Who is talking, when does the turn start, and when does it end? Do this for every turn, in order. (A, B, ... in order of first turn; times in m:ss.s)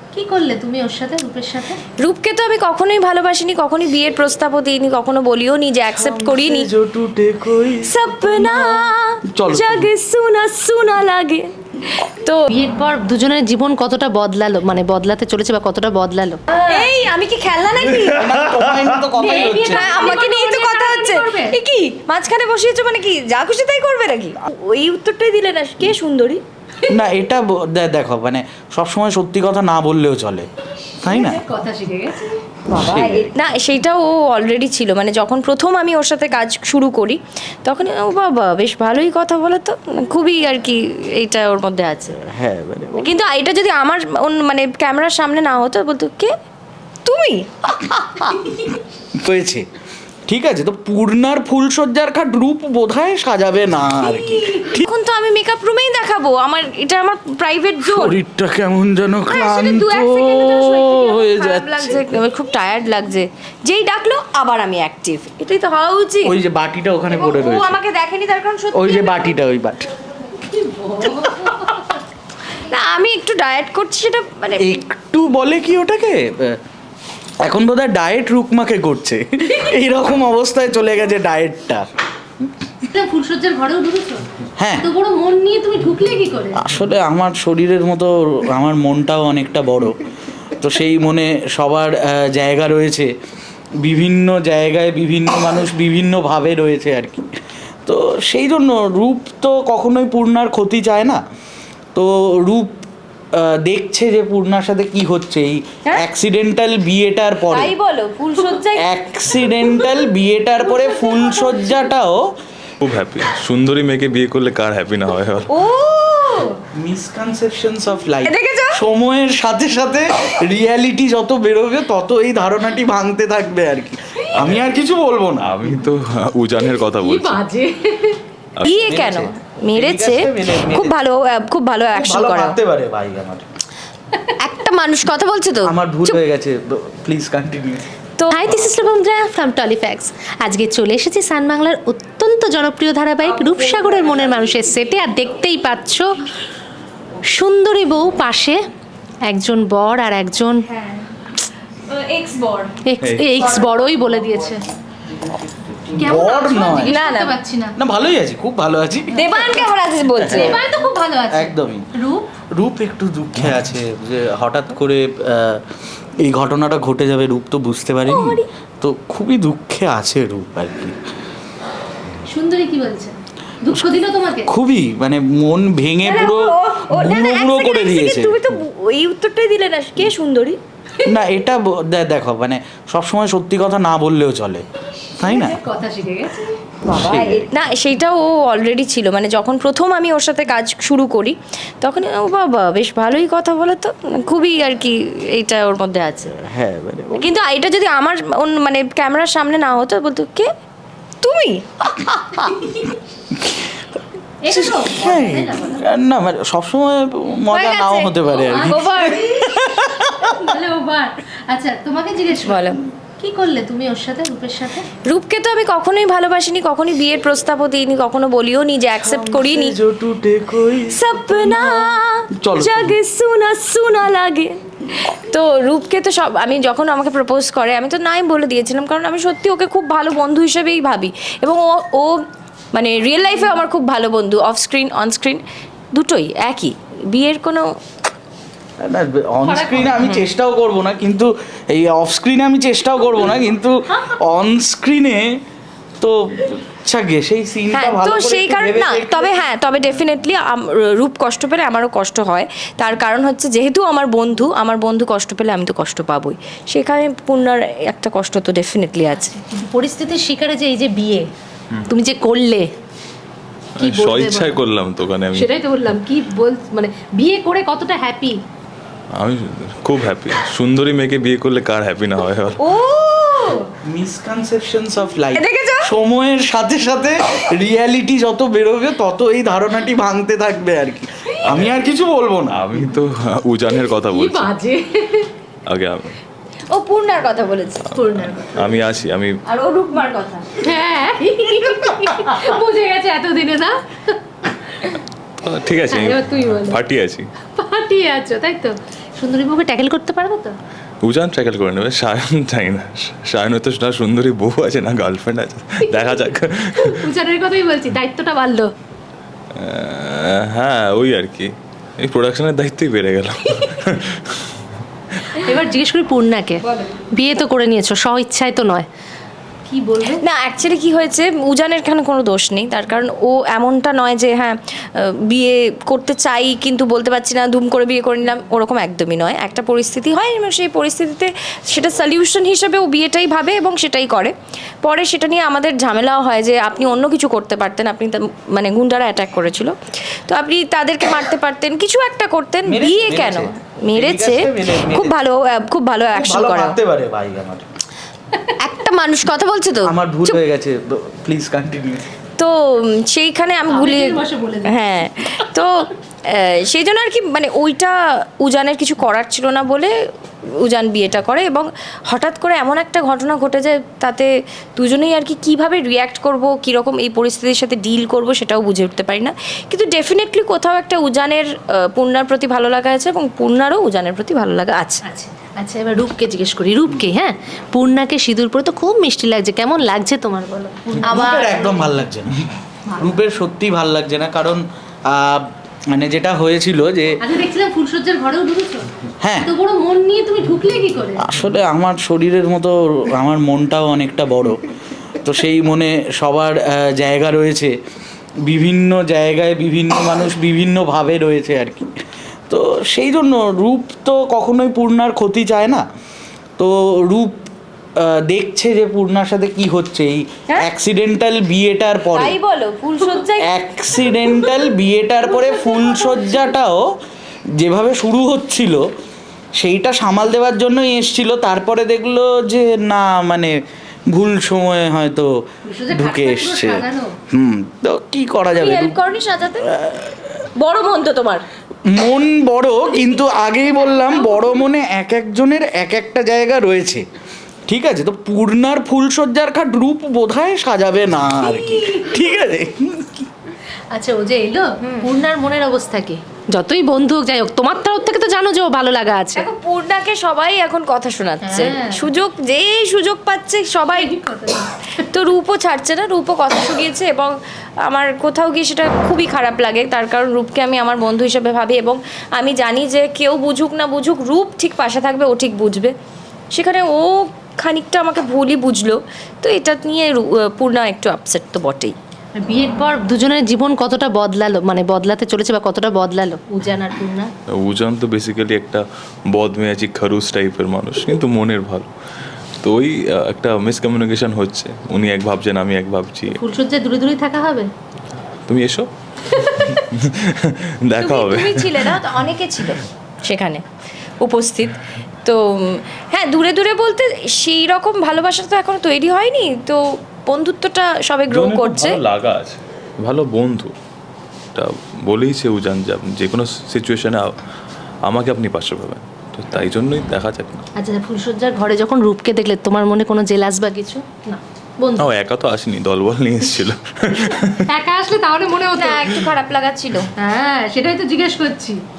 0:00.1-0:01.8 A
0:02.0-0:06.7 B
0:05.9-0:09.9 C
0:07.8-0:12.4 B
0:12.5-0:16.8 A
0:16.5-0:18.2 B
0:18.1-0:20.1 C
0:19.2-0:21.6 A
0:19.2-0:26.4 B
0:26.9-0:30.5 C
0:31.0-0:31.4 C
0:31.0-0:32.3 A
0:32.7-0:33.4 C
0:32.7-0:42.2 B
0:42.2-0:43.1 C
0:43.0-0:46.3 B
0:47.0-0:48.5 B
0:49.2-0:49.6 C
0:50.3-0:54.8 C
0:54.0-0:58.2 B
0:57.8-1:02.0 C
0:59.3-1:06.3 B
1:06.2-1:07.8 C
1:07.1-1:09.4 B
1:08.7-1:09.9 C
1:10.5-1:11.7 A
1:12.7-1:14.8 B
1:14.6-1:16.6 C
1:17.4-1:21.8 C
1:22.9-1:24.2 A
1:24.6-1:24.9 C
1:24.8-1:26.6 A
1:26.6-1:30.0 C
1:30.5-1:33.1 C
1:33.8-1:37.2 C
1:37.8-1:41.2 C
1:41.9-1:42.8 C
1:43.3-1:47.7 C
1:47.5-1:48.9 B
1:48.8-1:52.2 C
1:50.8-1:51.8 B
1:52.8-1:55.5 D
1:55.5-1:56.6 B
1:56.7-2:05.7 C
1:58.2-1:58.8 B
2:04.3-2:04.7 D
2:05.4-2:07.4 D
2:07.0-2:08.2 A
2:08.5-2:08.9 D
2:08.6-2:12.6 B
2:08.9-2:11.0 C
2:11.9-2:13.4 C
2:14.4-2:16.2 B
2:15.6-2:17.8 C
2:18.2-2:18.6 B
2:18.3-2:26.1 A
2:23.2-2:24.9 B
2:27.2-2:28.6 A
2:29.3-2:30.6 A
2:31.9-2:32.7 B
2:32.8-2:34.6 A
2:33.0-2:33.3 C
2:35.5-2:36.9 C
2:36.0-2:37.7 A
2:36.8-2:37.3 B
2:37.8-2:41.9 C
2:39.2-2:40.6 B
2:40.3-2:42.2 A
2:42.5-2:45.6 C
2:46.2-2:51.0 C
2:48.0-2:48.4 B
2:52.3-2:54.5 A
2:54.4-2:58.4 C
2:56.0-3:00.6 B
3:01.0-3:04.6 C
3:05.2-3:05.6 C
3:05.2-3:06.5 A
3:06.8-3:16.3 B
3:06.8-3:07.5 C
3:16.3-3:17.3 C
3:17.2-3:20.5 B
3:21.2-3:22.5 B
3:23.3-3:23.9 C
3:24.4-3:25.8 A
3:24.5-3:30.4 C
3:27.5-3:29.4 B
3:28.4-3:34.9 A
3:32.4-3:32.8 B
3:35.1-3:39.8 B
3:39.0-3:43.0 C
3:40.9-3:52.1 B
3:52.7-3:55.4 B
3:55.9-3:57.6 B
3:58.8-4:05.4 C
3:59.4-4:00.0 A
4:00.0-4:00.3 B
4:06.0-4:09.7 C
4:07.7-4:19.3 B
4:19.1-4:21.2 A
4:21.9-4:22.7 A
4:23.8-4:25.5 D
4:23.8-4:24.6 A
4:25.3-4:28.4 A
4:29.2-4:32.6 D
4:32.6-4:33.7 B
4:33.8-4:42.7 C
4:35.3-4:35.9 B
4:41.4-4:41.8 D
4:42.5-4:44.5 D
4:44.1-4:45.3 A
4:45.6-4:46.2 D
4:46.7-4:47.8 B
4:47.9-4:49.4 D
4:47.9-4:48.8 A
4:49.5-4:50.6 B
4:50.6-4:55.0 A
4:51.4-4:52.4 B
4:55.4-4:57.3 D
4:55.9-4:56.8 A
4:57.6-5:00.5 A
5:01.0-5:07.1 D
5:05.8-5:08.7 A
5:09.6-5:11.5 D
5:12.0-5:14.6 D
5:15.3-5:16.6 A
5:17.1-5:18.8 A
5:19.7-5:20.2 A
5:20.1-5:34.3 B
5:34.8-5:46.8 B
5:42.6-5:45.1 C
5:46.1-5:47.6 C
5:48.6-5:50.4 B
5:49.8-5:52.1 C
5:52.4-5:55.7 B
5:53.7-5:54.8 A
5:56.3-5:59.9 B
6:00.6-6:15.0 B
6:15.0-6:22.0 A
6:21.0-6:27.1 C
6:21.1-6:21.5 B
6:22.9-6:23.1 A
6:27.2-6:28.9 A
6:29.2-6:29.5 C
6:29.4-6:31.2 A
6:31.2-6:34.6 C
6:35.2-6:37.7 C
6:38.4-6:41.9 C
6:42.5-6:45.8 C
6:46.6-6:47.4 C
6:48.0-6:52.4 C
6:52.1-6:53.5 B
6:53.4-6:56.9 C
6:54.2-6:54.6 B
6:55.2-6:56.5 B
6:57.6-6:58.8 C
6:59.6-7:03.6 C
7:04.1-7:05.3 C
7:05.6-7:07.1 A
7:05.9-7:09.0 C
7:08.5-7:09.7 B
7:09.6-7:10.3 C
7:10.6-7:11.4 B
7:11.8-7:17.0 C
7:17.7-7:23.3 C
7:21.4-7:22.2 B
7:23.9-7:29.4 A
7:24.8-7:25.1 B
7:29.3-7:34.1 B
7:31.4-7:32.1 A
7:33.9-7:34.7 A
7:35.1-7:37.3 B
7:37.8-7:45.9 B
7:46.5-7:51.9 B
7:52.4-7:57.3 A
7:57.6-7:58.8 D
7:59.3-8:01.9 D
8:02.6-8:06.4 D
8:06.3-8:07.7 A
8:08.5-8:12.0 D
8:09.3-8:09.8 A
8:11.0-8:13.6 B
8:14.2-8:22.0 B
8:21.3-8:23.7 D
8:24.5-8:27.3 D
8:28.1-8:30.6 D
8:30.8-8:35.1 A
8:35.0-8:37.6 D
8:37.6-8:39.1 A
8:38.8-8:40.1 B
8:40.2-8:41.8 A